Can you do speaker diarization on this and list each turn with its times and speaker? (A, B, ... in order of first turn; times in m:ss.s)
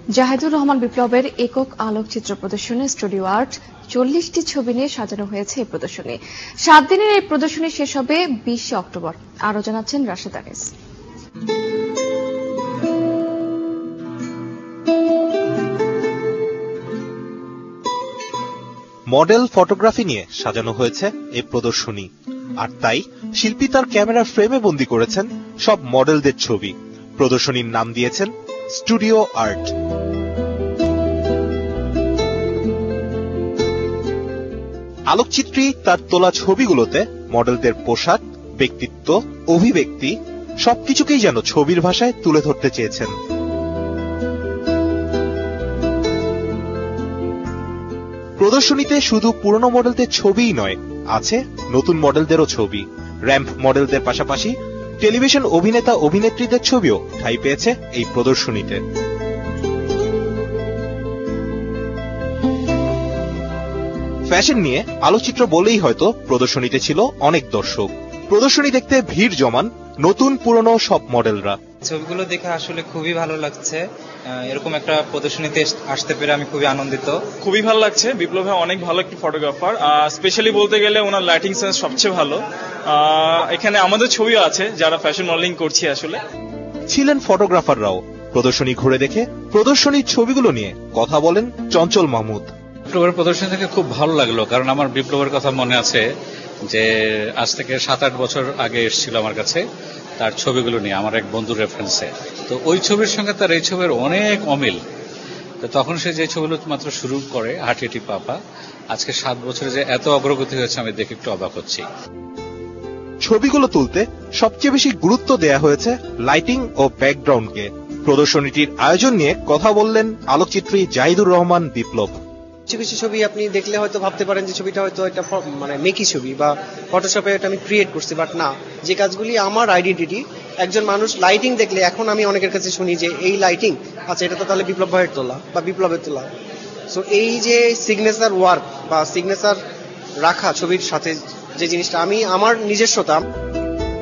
0:00.1-0:10.7 A
0:19.1-0:29.7 B
0:35.1-0:43.1 B
0:48.4-0:58.8 B
1:04.3-1:11.6 B
1:11.8-1:17.2 C
1:17.4-1:26.2 D
1:26.9-1:32.5 B
1:32.9-1:36.0 E
1:37.4-1:39.6 E
1:40.2-1:44.8 E
1:45.6-1:48.4 E
1:48.9-1:51.8 E
1:53.2-2:02.1 B
2:02.7-2:16.3 F
2:16.9-2:19.6 F
2:20.2-2:23.2 F